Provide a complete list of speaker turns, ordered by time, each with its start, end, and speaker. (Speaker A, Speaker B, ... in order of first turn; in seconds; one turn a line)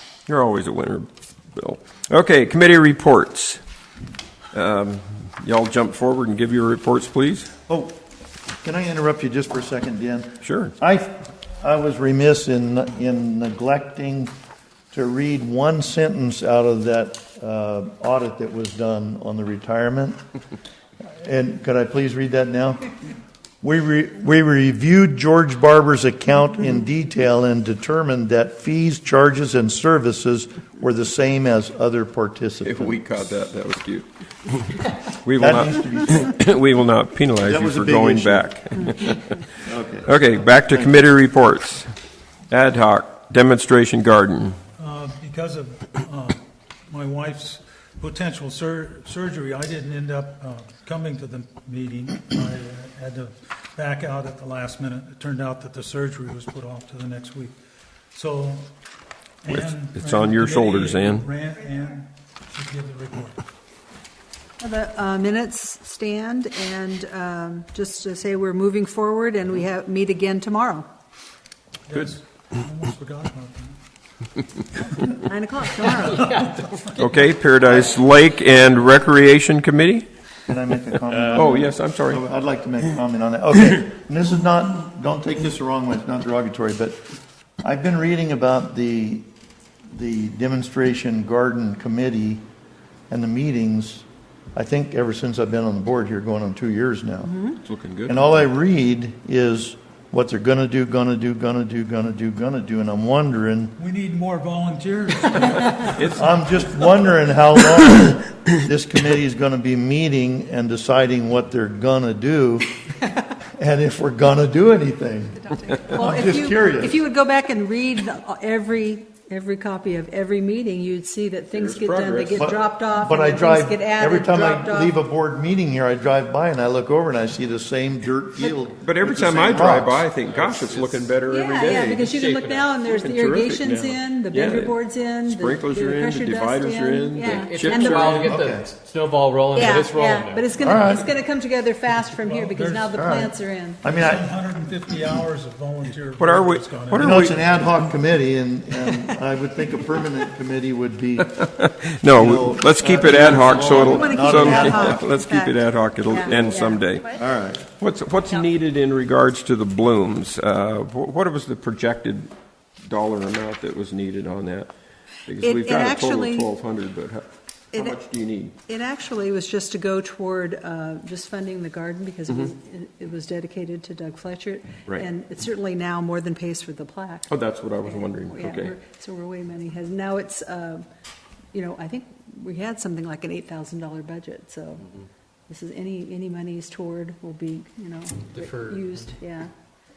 Speaker A: 0.3-3.6
Speaker A: 4.5-7.5
Speaker B: 7.7-8.0
Speaker B: 8.6-14.3
Speaker A: 10.4-10.7
Speaker B: 14.9-20.2
Speaker B: 21.1-22.9
Speaker B: 23.6-33.0
Speaker A: 32.6-39.5
Speaker B: 35.4-36.3
Speaker B: 37.4-38.5
Speaker B: 39.6-40.1
Speaker A: 40.1-41.9
Speaker B: 40.6-41.0
Speaker A: 42.5-44.6
Speaker C: 44.8-57.5
Speaker C: 58.1-58.7
Speaker C: 59.4-63.4
Speaker A: 59.5-61.3
Speaker D: 64.6-70.9
Speaker C: 71.9-73.8
Speaker D: 75.1-76.5
Speaker E: 76.2-76.9
Speaker A: 76.9-80.1
Speaker B: 77.6-77.9
Speaker B: 80.5-87.0
Speaker E: 81.1-81.4
Speaker A: 81.3-82.2
Speaker B: 87.6-89.2
Speaker B: 89.9-92.4
Speaker B: 93.1-97.4
Speaker D: 97.2-97.6
Speaker A: 97.6-98.2
Speaker B: 98.1-103.8
Speaker C: 103.8-106.0
Speaker A: 105.8-106.2
Speaker B: 106.1-112.7
Speaker B: 113.5-117.0
Speaker D: 115.8-125.0
Speaker A: 121.5-122.5
Speaker B: 122.3-130.0
Speaker A: 128.8-132.0
Speaker E: 130.2-132.8
Speaker D: 131.2-138.4
Speaker A: 132.8-138.2
Speaker E: 137.2-140.5
Speaker B: 138.2-138.7
Speaker D: 139.5-143.8
Speaker B: 140.6-141.1
Speaker C: 142.0-143.0
Speaker B: 142.9-144.4
Speaker C: 143.8-147.3
Speaker A: 146.2-147.4
Speaker B: 147.0-151.4
Speaker A: 151.4-157.1
Speaker B: 152.1-155.0
Speaker D: 153.6-157.0
Speaker B: 157.1-157.7
Speaker A: 157.8-162.3
Speaker A: 162.8-164.7
Speaker A: 165.2-168.6
Speaker D: 165.3-166.5
Speaker D: 167.7-168.0
Speaker D: 168.7-180.8
Speaker A: 177.3-178.7
Speaker D: 181.5-184.9
Speaker D: 185.5-189.5
Speaker E: 188.3-189.1